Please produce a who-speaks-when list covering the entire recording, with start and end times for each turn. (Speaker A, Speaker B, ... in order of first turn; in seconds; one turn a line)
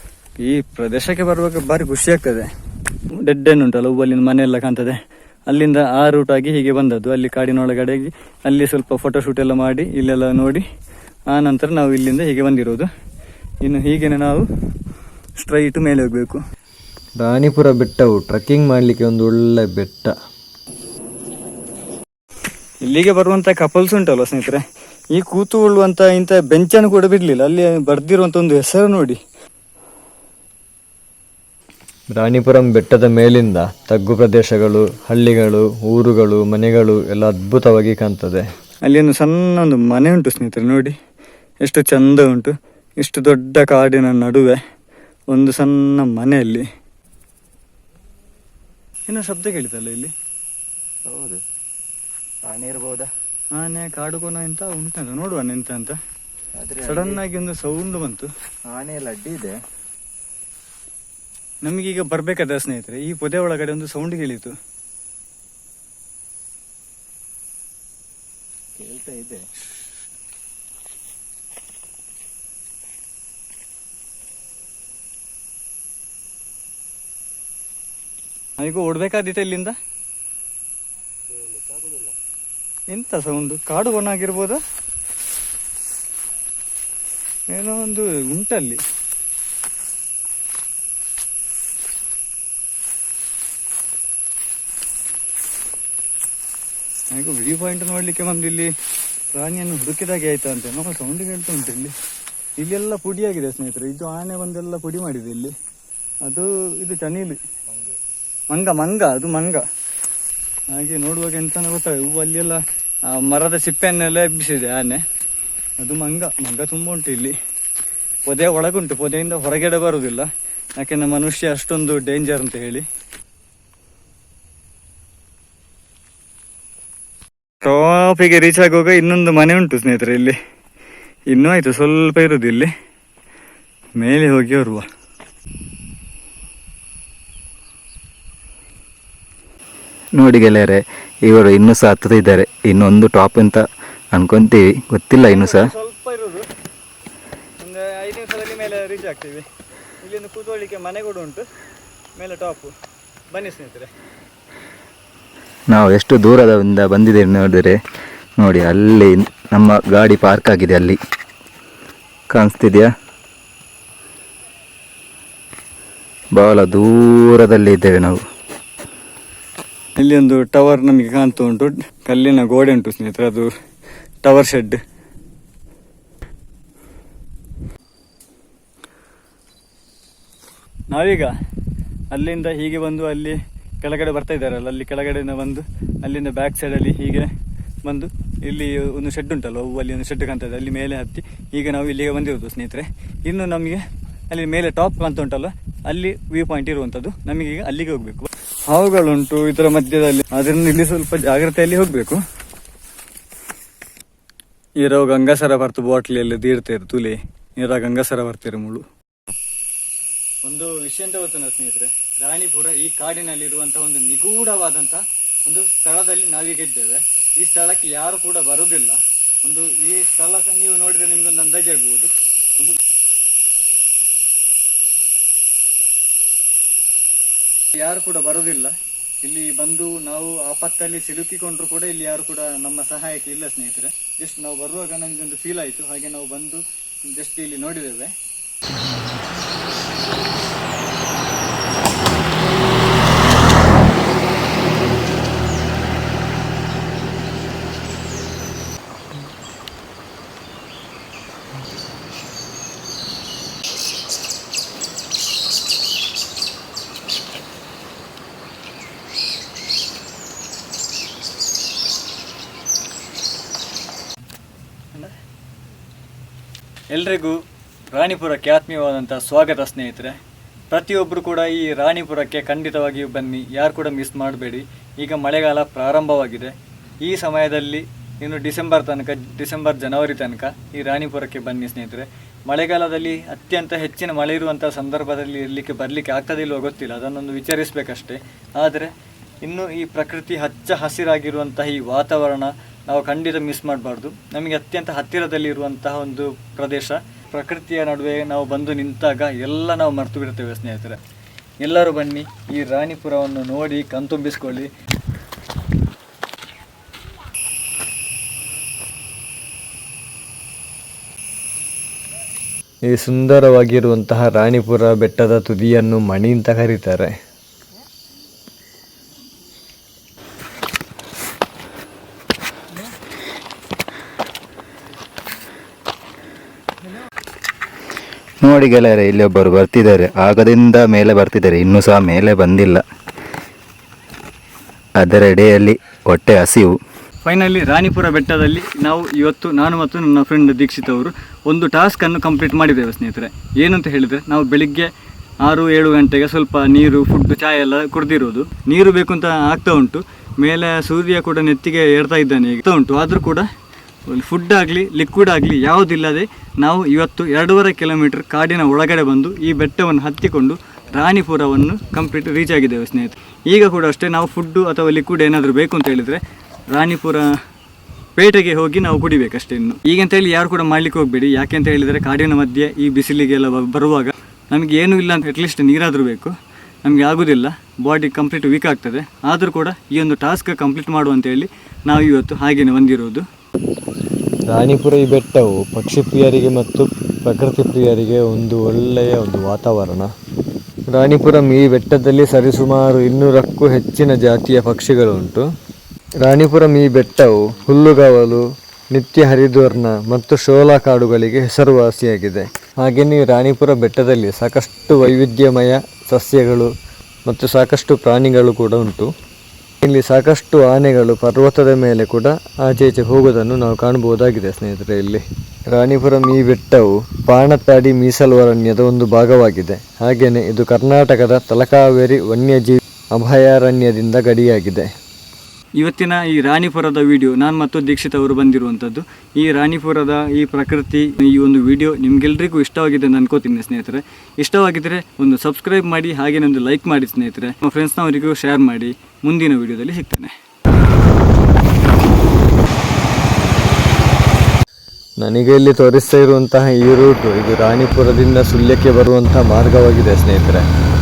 Speaker A: 0.4-2.5
Speaker A: 3.2-10.6
Speaker A: 11.3-12.9
Speaker A: 13.6-14.5
Speaker A: 15.4-16.4
Speaker B: 17.2-20.1
Speaker A: 22.9-24.6
Speaker A: 25.1-29.2
Speaker B: 32.1-38.4
Speaker A: 38.9-41.0
Speaker A: 41.6-44.6
Speaker A: 45.3-46.7
Speaker A: 49.1-50.1
Speaker C: 51.1-51.4
Speaker C: 52.5-53.1
Speaker A: 53.5-56.0
Speaker C: 56.6-57.2
Speaker A: 56.9-58.3
Speaker C: 58.7-59.5
Speaker A: 61.6-64.5
Speaker C: 68.8-69.5
Speaker A: 78.6-79.8
Speaker A: 82.9-84.6
Speaker A: 87.5-88.8
Speaker A: 97.1-98.7
Speaker A: 99.3-102.0
Speaker A: 102.6-105.5
Speaker A: 106.2-107.4
Speaker A: 108.5-109.7
Speaker A: 110.7-115.0
Speaker A: 115.8-117.3
Speaker A: 118.3-122.8
Speaker A: 127.6-130.4
Speaker A: 131.3-132.7
Speaker A: 134.0-134.8
Speaker C: 140.2-143.6
Speaker C: 144.1-145.7
Speaker A: 145.2-146.5
Speaker A: 147.6-149.5
Speaker A: 150.0-151.4
Speaker A: 152.2-152.7
Speaker A: 153.3-153.9
Speaker C: 155.7-157.8
Speaker C: 158.4-161.0
Speaker C: 162.3-162.9
Speaker C: 166.3-168.2
Speaker A: 170.0-173.5
Speaker A: 174.2-174.8
Speaker A: 180.9-181.3
Speaker A: 182.1-187.3
Speaker A: 187.8-202.2
Speaker A: 204.8-208.8
Speaker A: 210.4-222.8
Speaker A: 227.7-238.2
Speaker A: 266.9-267.4
Speaker A: 267.9-270.2
Speaker A: 270.7-288.9
Speaker A: 289.4-301.0
Speaker A: 301.6-304.7
Speaker B: 312.9-317.1
Speaker C: 328.4-332.8
Speaker C: 335.0-336.8
Speaker A: 337.2-344.9
Speaker A: 345.4-353.5
Speaker A: 354.1-367.4
Speaker A: 368.2-383.2
Speaker B: 384.5-390.1
Speaker B: 390.9-395.5
Speaker B: 396.2-406.7
Speaker B: 407.3-409.1
Speaker B: 409.8-424.9
Speaker A: 425.8-440.3
Speaker B: 445.2-450.7